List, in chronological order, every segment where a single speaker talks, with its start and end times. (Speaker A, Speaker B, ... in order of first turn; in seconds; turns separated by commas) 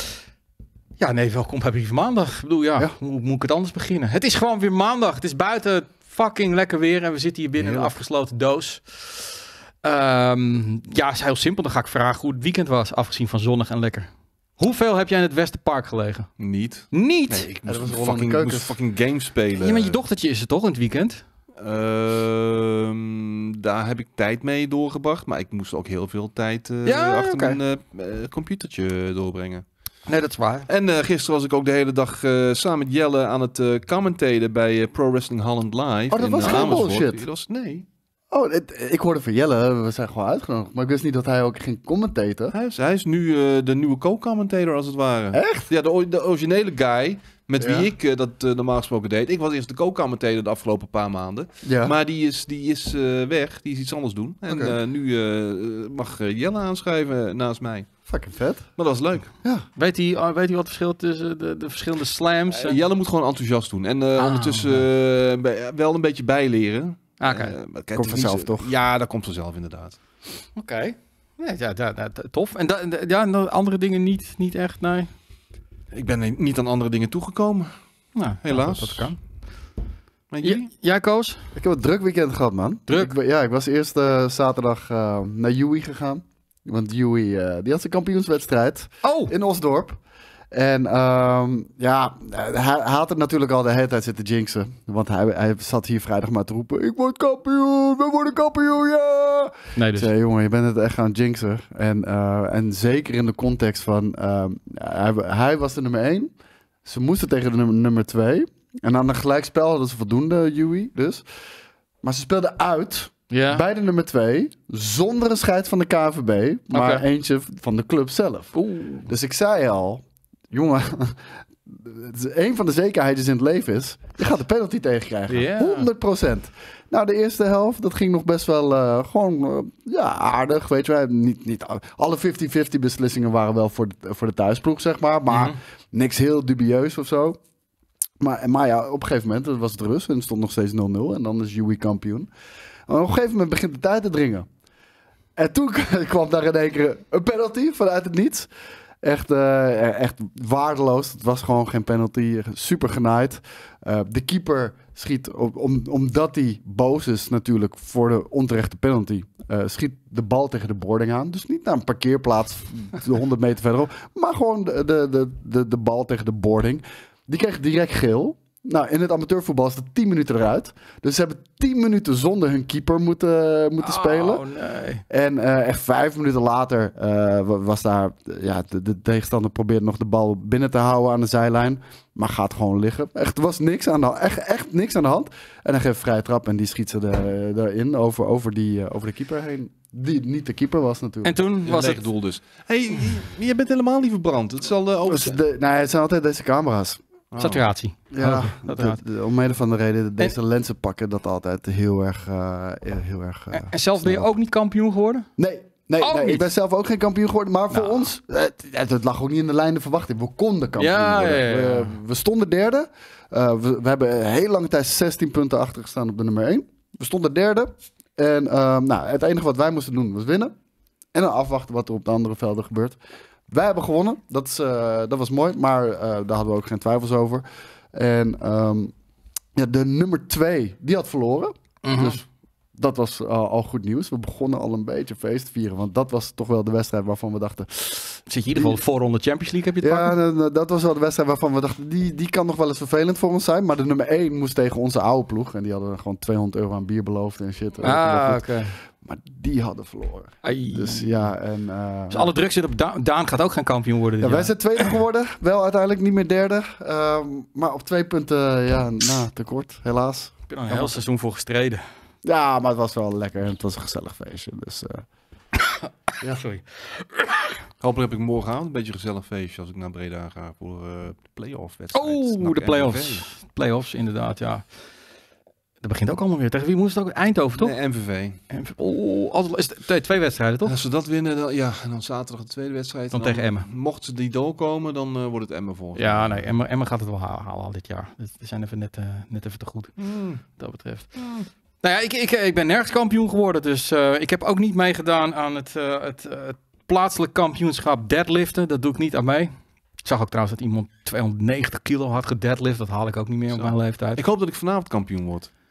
Speaker A: 1.0-16.3, Speaker B: 7.6-7.9, Speaker C: 16.4-20.0, Speaker A: 16.9-17.5, Speaker B: 17.7-18.8, Speaker A: 19.6-21.2, Speaker C: 21.6-29.6, Speaker A: 26.9-27.6, Speaker A: 30.1-30.7, Speaker C: 30.7-37.9, Speaker B: 36.1-37.2, Speaker B: 38.3-42.5, Speaker C: 42.5-57.9, Speaker B: 45.3-45.7, Speaker B: 47.6-47.9, Speaker B: 51.6-52.0, Speaker B: 54.5-54.8, Speaker B: 58.1-58.7, Speaker C: 58.8-59.3, Speaker A: 59.8-62.8, Speaker C: 62.5-70.0, Speaker A: 64.2-64.8, Speaker A: 67.2-67.6, Speaker B: 68.0-68.7, Speaker A: 70.6-75.1, Speaker C: 75.9-77.7, Speaker A: 78.2-79.2, Speaker C: 78.4-79.2, Speaker C: 80.3-80.7, Speaker A: 80.4-81.4, Speaker B: 81.6-90.0, Speaker A: 82.9-83.1, Speaker A: 89.0-89.3, Speaker B: 90.5-106.3, Speaker A: 99.8-100.1, Speaker B: 106.8-111.3, Speaker B: 112.0-137.4, Speaker A: 113.3-113.6, Speaker A: 116.7-117.0, Speaker A: 118.5-119.1, Speaker A: 125.3-125.9, Speaker A: 135.3-135.6, Speaker B: 138.2-142.3, Speaker B: 142.9-144.5, Speaker B: 145.4-148.5, Speaker B: 149.0-174.4, Speaker A: 173.8-175.0, Speaker B: 175.1-191.4, Speaker A: 191.2-192.0, Speaker C: 191.7-195.4, Speaker B: 195.1-197.0, Speaker C: 197.3-197.7, Speaker A: 197.4-199.0, Speaker B: 198.1-204.3, Speaker A: 203.5-205.3, Speaker B: 205.4-220.6, Speaker A: 206.0-206.5, Speaker A: 207.7-208.1, Speaker A: 210.8-212.0, Speaker B: 221.1-228.9, Speaker B: 229.6-238.8, Speaker A: 231.8-232.2, Speaker A: 238.3-240.2, Speaker B: 239.8-252.3, Speaker A: 247.8-248.8, Speaker A: 250.4-251.3, Speaker A: 252.1-254.9, Speaker B: 254.2-261.0, Speaker A: 260.5-261.8, Speaker B: 262.2-265.0, Speaker A: 265.6-267.6, Speaker C: 267.8-273.2, Speaker A: 271.9-274.7, Speaker A: 275.8-277.7, Speaker C: 277.6-278.4, Speaker A: 278.5-280.7, Speaker C: 280.7-286.5, Speaker A: 283.1-283.7, Speaker A: 286.0-290.0, Speaker C: 290.0-290.4, Speaker A: 290.5-291.2, Speaker C: 291.2-291.5, Speaker A: 291.8-304.2, Speaker C: 303.5-305.5